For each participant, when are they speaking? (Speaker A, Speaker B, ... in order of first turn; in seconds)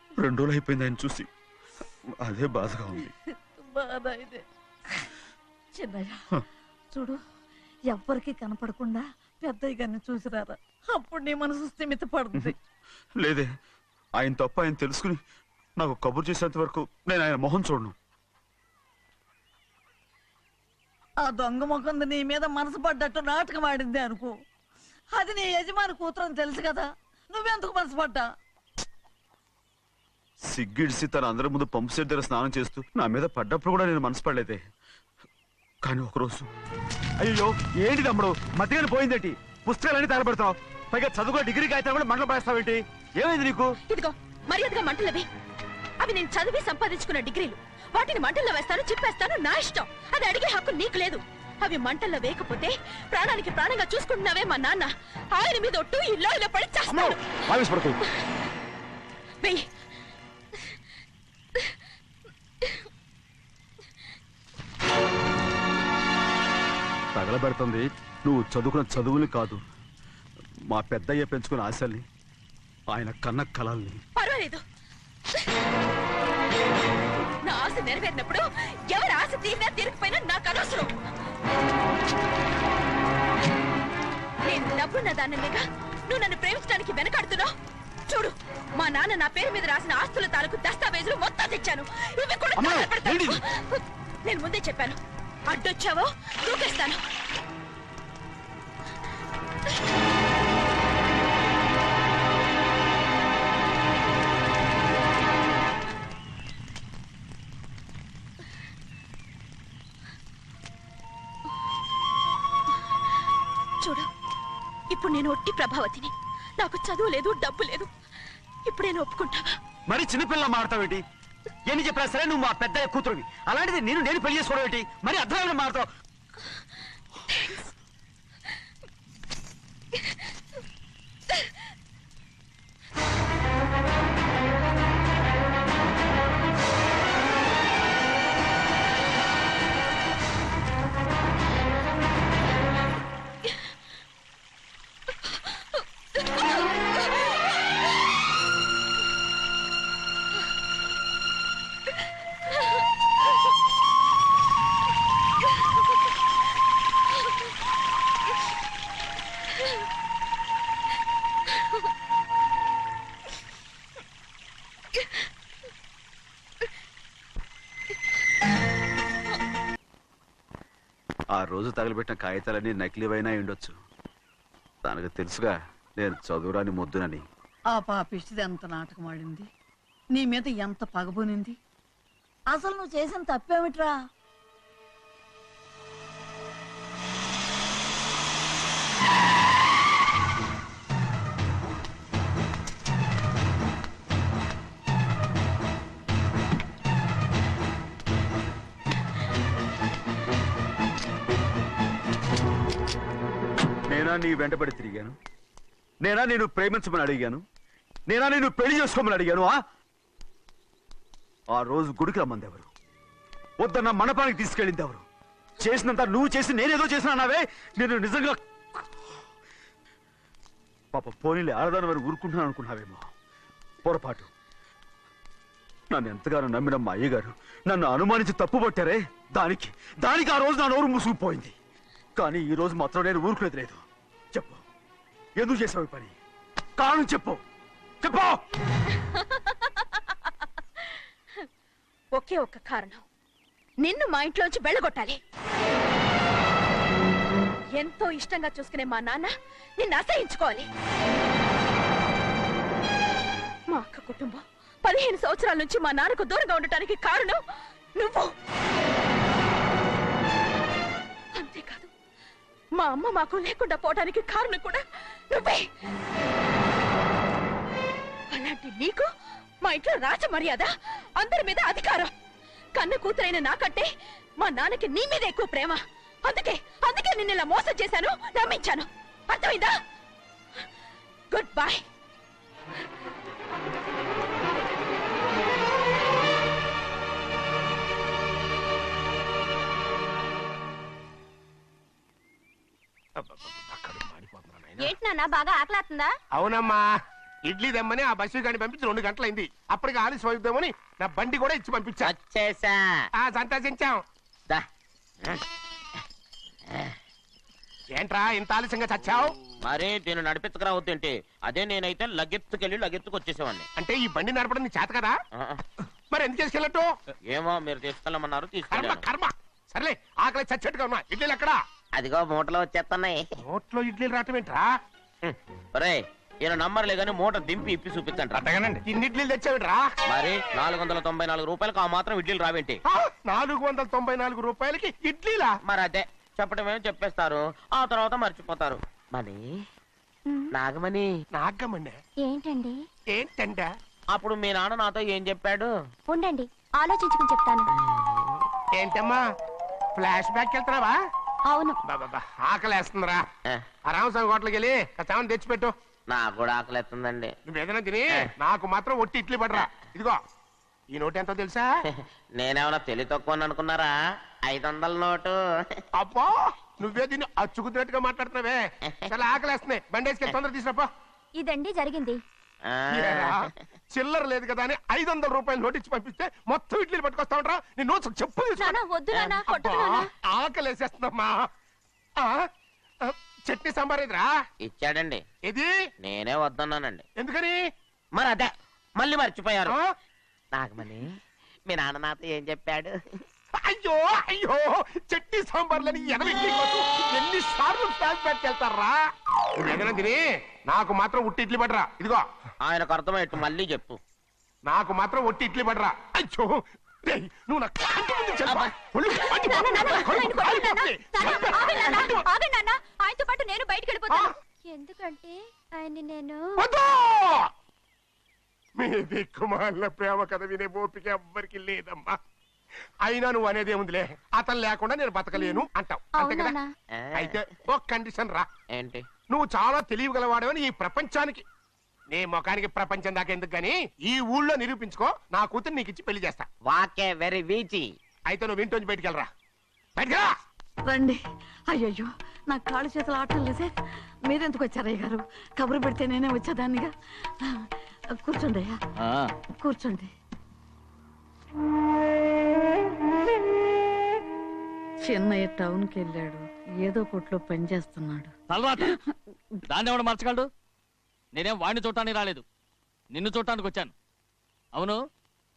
Speaker A: 0.2-1.3, 2.2-3.1, 13.2-13.5, 14.2-15.2, 15.8-17.9, 30.5-34.6, 35.8-36.5, 37.2-43.7, 56.9-58.0, 67.2-69.6, 70.7-72.0, 72.9-74.0, 92.6-93.4, 119.9-121.0, 121.7-125.9, 171.3-173.8, 174.8-177.2, 203.9-205.2, 206.0-207.4, 208.1-209.6, 211.5-212.7, 213.6-215.0, 215.6-218.4, 220.9-223.1, 223.8-224.3, 225.9-231.5, 232.2-233.8, 234.3-234.6, 235.4-236.2, 236.8-237.4, 238.0-238.4
Speaker B: 3.7-4.4, 5.7-6.2, 6.9-7.2, 7.9-12.5, 21.2-24.3, 25.1-28.3, 177.7-179.5, 180.1-181.6, 182.5-183.9, 440.9-441.2, 441.7-443.7, 444.3-446.9, 448.2-448.8, 449.6-450.1, 455.0-458.3
Speaker C: 43.9-45.3, 46.0-57.2, 74.2-74.6, 77.4-80.9, 84.5-87.5, 88.1-95.0, 95.5-97.0, 113.8-114.1, 114.9-117.9, 118.7-119.5, 127.3-127.7, 239.0-240.0, 242.2-243.0, 243.8-245.2, 247.8-250.7, 253.7-257.4, 258.0-258.3, 261.4-261.9, 262.8-265.6, 268.3-269.1, 269.6-272.1, 272.8-279.7, 281.3-281.8
Speaker D: 293.2-294.9, 296.3-296.8, 297.5-302.1, 303.2-304.0, 308.0-309.3, 313.8-315.1, 316.1-316.9, 318.7-321.6, 323.5-324.7, 328.8-329.9, 332.9-335.5, 341.3-342.0, 343.1-343.7, 348.7-349.2, 350.0-351.0, 351.9-353.2, 353.9-355.7, 357.5-360.2, 360.9-361.7, 366.0-370.9, 373.0-373.4, 373.9-378.8, 379.5-381.3, 383.1-384.3, 385.4-385.7, 387.2-387.6, 393.6-399.0, 399.6-402.2, 404.6-406.6, 407.1-412.3, 416.6-417.4, 418.8-422.2, 423.0-426.6, 427.2-428.5, 429.3-431.4, 432.1-436.5, 438.3-439.3, 440.0-440.3
Speaker E: 294.8-296.1, 342.2-342.8, 346.1-347.7, 351.5-351.8, 371.4-372.2, 378.6-380.1, 408.5-416.5, 425.4-425.6, 426.2-426.6
Speaker F: 302.0-302.9, 309.6-313.7, 317.3-319.1, 322.0-323.2, 325.2-328.8, 330.1-332.8, 335.6-339.4, 340.5-341.1, 344.1-345.7, 356.1-357.4, 359.6-359.9, 362.3-363.9, 364.4-365.4, 369.0-369.4, 372.7-373.5, 379.1-379.5, 384.6-385.2, 386.0-387.0, 388.1-389.7, 390.5-391.0, 391.7-392.9, 402.6-404.0, 427.0-427.6, 428.7-429.1, 436.7-437.9
Speaker G: 449.0-449.3, 458.5-458.9, 459.7-460.5, 461.3-462.4, 463.1-463.9, 464.7-465.0